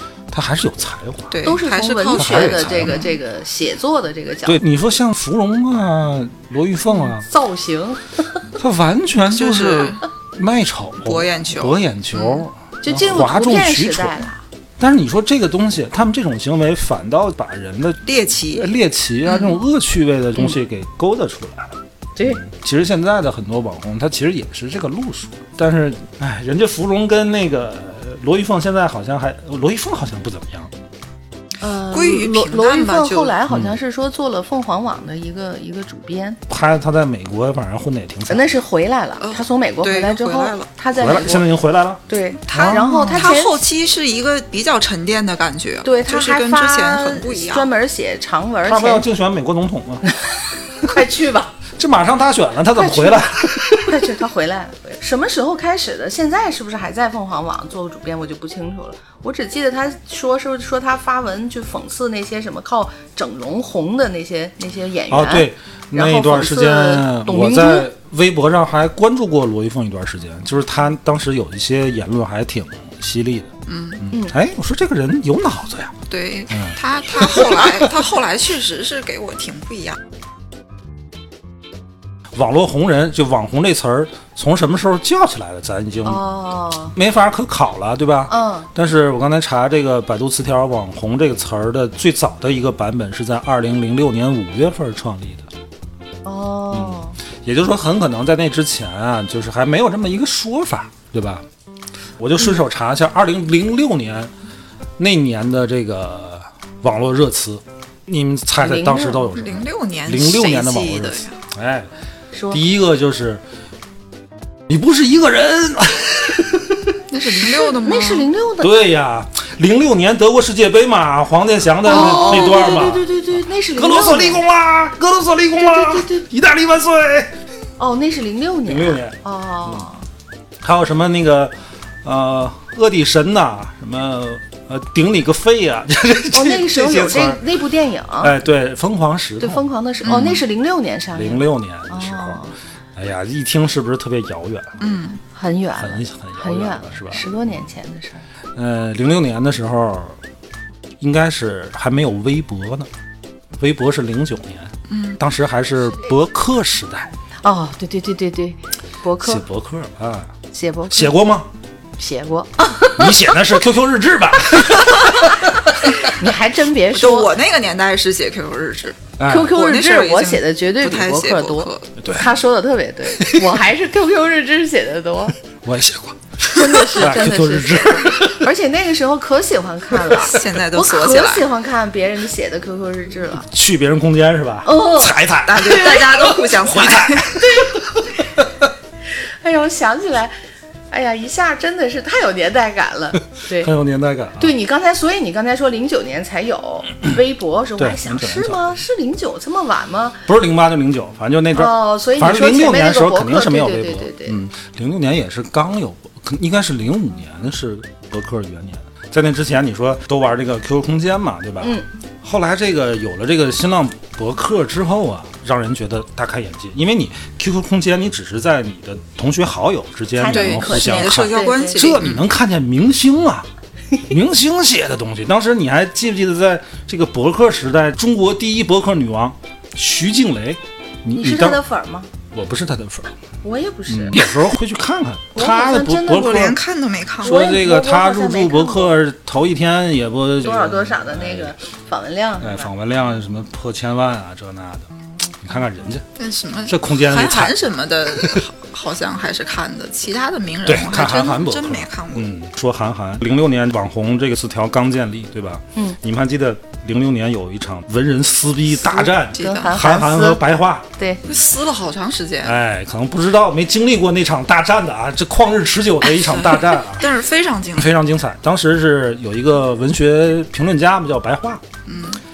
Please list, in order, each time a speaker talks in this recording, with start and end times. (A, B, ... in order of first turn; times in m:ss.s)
0:00.3-0:01.4 A
0:01.3-0:03.1 B
0:01.4-0:04.6 C
0:02.2-0:03.0 A
0:04.5-0:07.2 A
0:07.2-0:08.4 C
0:08.6-0:14.2 A
0:09.3-0:10.0 B
0:11.0-0:12.5 B
0:12.8-0:14.4 C
0:14.8-0:18.0 A
0:18.1-0:18.7 B
0:18.5-0:30.7 A
0:19.3-0:19.6 B
0:22.2-0:22.4 C
0:31.6-0:36.4 C
0:31.9-0:33.4 B
0:33.5-0:33.8 A
0:36.5-0:38.4 A
0:38.3-0:41.5 C
0:39.2-0:40.7 B
0:41.0-0:43.3 A
0:42.1-0:43.6 C
0:43.1-0:47.7 B
0:45.8-0:49.0 C
0:48.6-0:50.0 A
0:50.1-0:51.6 C
0:51.8-0:54.0 A
0:52.8-1:07.9 C
1:05.1-1:16.0 A
1:13.7-1:14.0 B
1:16.1-1:20.0 B
1:16.5-1:17.7 A
1:22.3-1:26.2 A
1:26.0-1:26.9 C
1:26.9-1:35.5 A
1:28.3-1:28.7 C
1:36.2-1:37.2 C
1:36.7-1:41.4 A
1:42.2-1:44.3 A
1:45.0-1:51.9 A
1:48.6-1:49.3 C
1:49.4-1:51.4 B
1:52.3-1:52.6 C
1:52.5-1:53.4 A
1:54.7-1:57.0 A
1:57.1-1:58.3 B
1:57.8-1:58.7 C
1:58.6-2:03.1 A
2:01.9-2:04.4 C
2:02.0-2:02.5 B
2:03.8-2:07.4 A
2:05.6-2:06.2 C
2:07.8-2:10.0 C
2:08.7-2:09.8 A
2:10.6-2:17.4 A
2:16.3-2:18.3 C
2:18.2-2:20.3 A
2:19.4-2:22.5 C
2:20.0-2:20.4 B
2:21.2-2:22.4 A
2:23.0-2:24.8 A
2:24.8-2:25.2 B
2:25.4-2:28.3 C
2:25.8-2:27.4 A
2:28.6-2:30.2 A
2:31.0-2:32.9 A
2:33.6-2:37.1 A
2:34.9-2:35.2 B
2:37.4-2:39.4 C
2:39.2-2:40.3 A
2:40.5-2:41.2 C
2:40.9-2:41.5 A
2:42.0-2:43.3 C
2:43.0-2:46.0 A
2:46.0-2:47.3 C
2:46.9-2:51.9 B
2:49.2-2:49.6 A
2:49.2-2:55.4 C
2:52.0-2:52.3 A
2:53.2-2:53.6 A
2:55.6-2:58.4 A
2:56.5-3:03.5 C
3:00.1-3:01.5 B
3:03.4-3:08.7 A
3:04.6-3:06.3 C
3:05.5-3:07.3 B
3:07.4-3:07.8 C
3:09.1-3:10.3 C
3:10.9-3:13.7 C
3:13.3-3:14.5 A
3:14.4-3:20.2 C
3:17.8-3:18.6 A
3:20.3-3:43.5 A
3:21.6-3:24.4 C
3:31.6-3:31.9 C
3:40.2-3:41.8 C
3:40.3-3:42.3 B
3:44.1-3:51.6 A
3:51.2-3:52.1 C
3:52.3-3:53.1 A
3:53.4-3:54.3 C
3:53.9-3:56.6 A
3:55.4-3:56.4 C
3:56.0-3:57.4 B
3:57.2-4:01.6 A
3:57.2-3:58.9 C
4:00.4-4:02.7 C
4:02.4-4:06.1 A
4:06.2-4:12.3 B
4:06.7-4:07.6 A
4:08.1-4:08.4 A
4:10.7-4:20.9 A
4:18.9-4:20.4 C
4:19.4-4:19.8 B
4:21.3-4:22.6 B
4:22.4-4:27.1 A
4:26.1-4:27.9 B
4:27.8-4:31.6 A
4:31.9-4:32.2 B